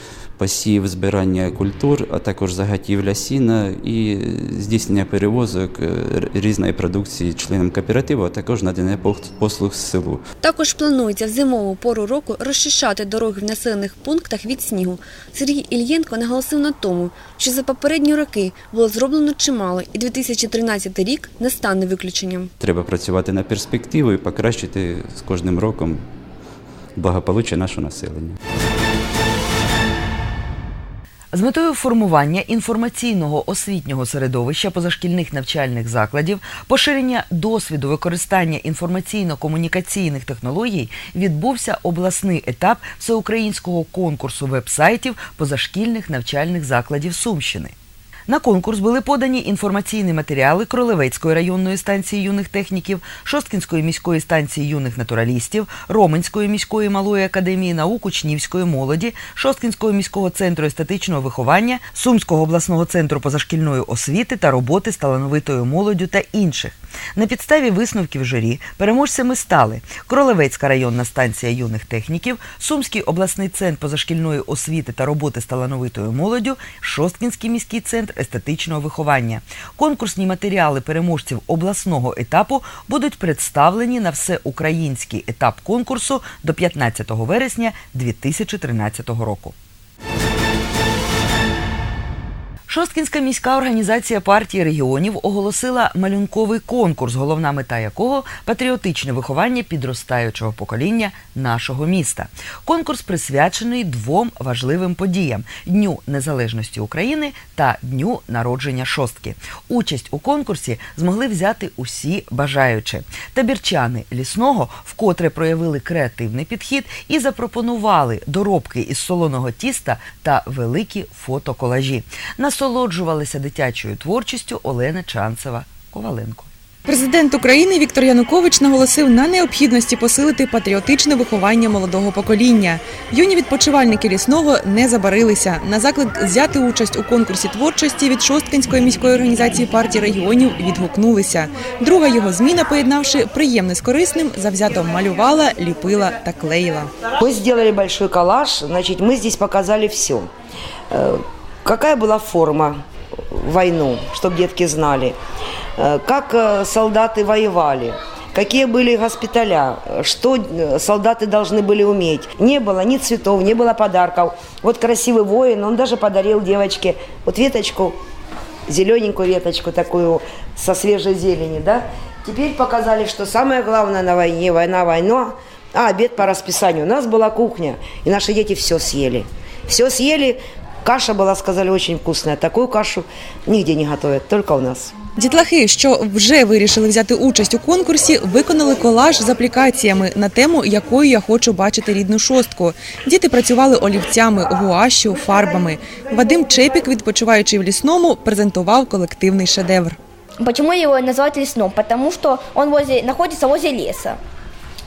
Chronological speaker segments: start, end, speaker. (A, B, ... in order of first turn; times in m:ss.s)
0:00.4-0:10.2 A
0:10.4-0:22.5 B
0:22.6-0:26.0 A
0:27.0-0:28.4 A
0:31.3-0:47.7 C
0:48.3-1:29.5 C
1:32.7-2:06.5 C
2:06.8-2:26.9 D
2:27.2-2:30.3 E
2:30.9-2:32.8 E
2:33.3-2:35.2 E
2:35.8-2:48.0 E
2:48.7-3:04.9 E
3:05.2-3:20.0 D
3:20.4-3:24.2 F